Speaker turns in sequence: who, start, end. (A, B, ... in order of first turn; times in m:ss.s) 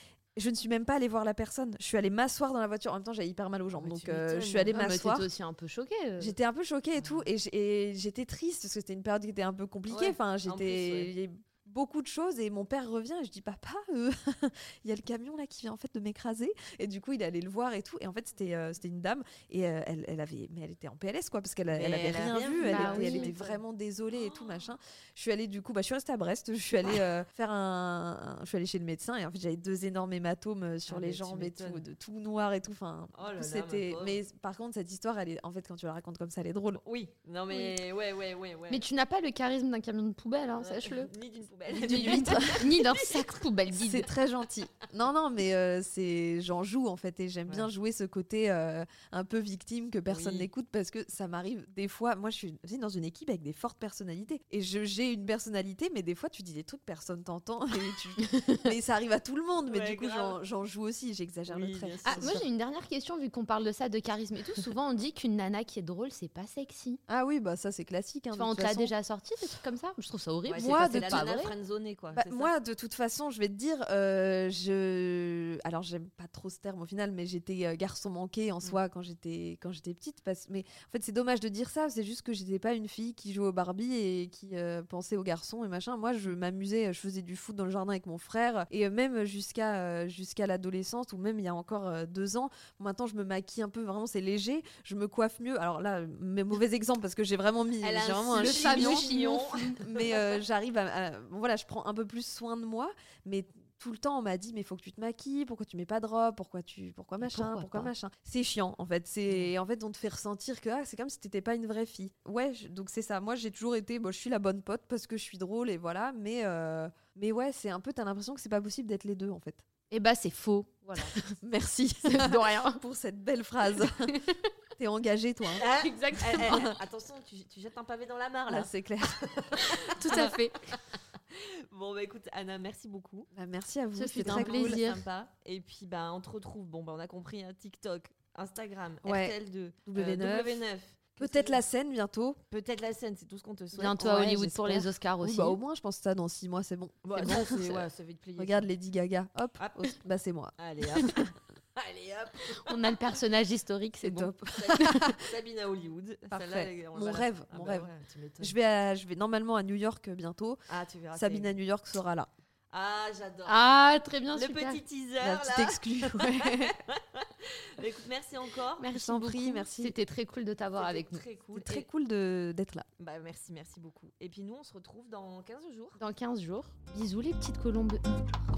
0:00.4-0:05.3 A
0:03.8-0:04.8 B
0:04.7-0:06.4 C
0:06.2-0:36.8 A
0:07.0-0:07.2 B
0:09.9-0:11.1 B
0:21.7-0:23.6 B
0:22.6-0:23.3 C
0:24.1-0:24.7 B
0:30.9-0:31.8 B
0:33.1-0:34.2 B
0:36.8-0:38.8 B
0:38.7-0:41.1 C
0:40.6-0:43.4 B
0:41.7-0:42.7 A
0:41.7-0:44.1 C
0:43.7-1:02.4 A
0:50.1-0:50.5 B
0:58.2-0:58.7 C
0:59.6-1:00.4 B
1:01.5-1:02.4 B
1:02.1-1:07.0 C
1:07.1-1:08.9 A
1:08.3-1:11.5 C
1:10.5-1:12.5 B
1:10.6-1:11.5 A
1:12.1-1:39.1 A
1:37.8-1:40.4 B
1:38.3-1:39.8 C
1:39.8-1:59.6 A
1:47.2-1:47.9 C
1:59.9-2:01.2 C
2:01.2-2:04.1 A
2:02.0-2:02.8 C
2:03.9-2:04.5 C
2:04.8-2:05.6 A
2:05.6-2:13.3 B
2:05.6-2:06.7 C
2:06.2-2:06.7 A
2:08.5-2:10.3 A
2:09.9-2:10.8 C
2:13.3-2:14.8 A
2:14.0-2:15.0 C
2:14.1-2:21.6 B
2:19.0-2:20.6 A
2:21.2-2:22.4 A
2:22.5-2:24.1 B
2:23.8-2:25.6 C
2:23.8-2:31.3 A
2:27.0-2:28.7 B
2:29.6-2:30.0 B
2:30.6-2:33.0 B
2:32.5-2:35.0 C
2:34.0-2:35.3 A
2:34.5-2:38.6 B
2:36.3-2:37.9 A
2:38.4-2:40.6 A
2:40.7-2:41.6 B
2:41.1-2:42.3 A
2:42.7-2:43.6 B
2:43.5-2:44.8 C
2:44.3-2:48.9 B
2:45.2-2:46.8 A
2:48.8-2:51.2 C
2:48.9-2:50.0 A
2:50.8-2:51.9 B
2:51.5-2:52.9 A
2:53.0-2:56.0 B
2:56.0-2:58.4 C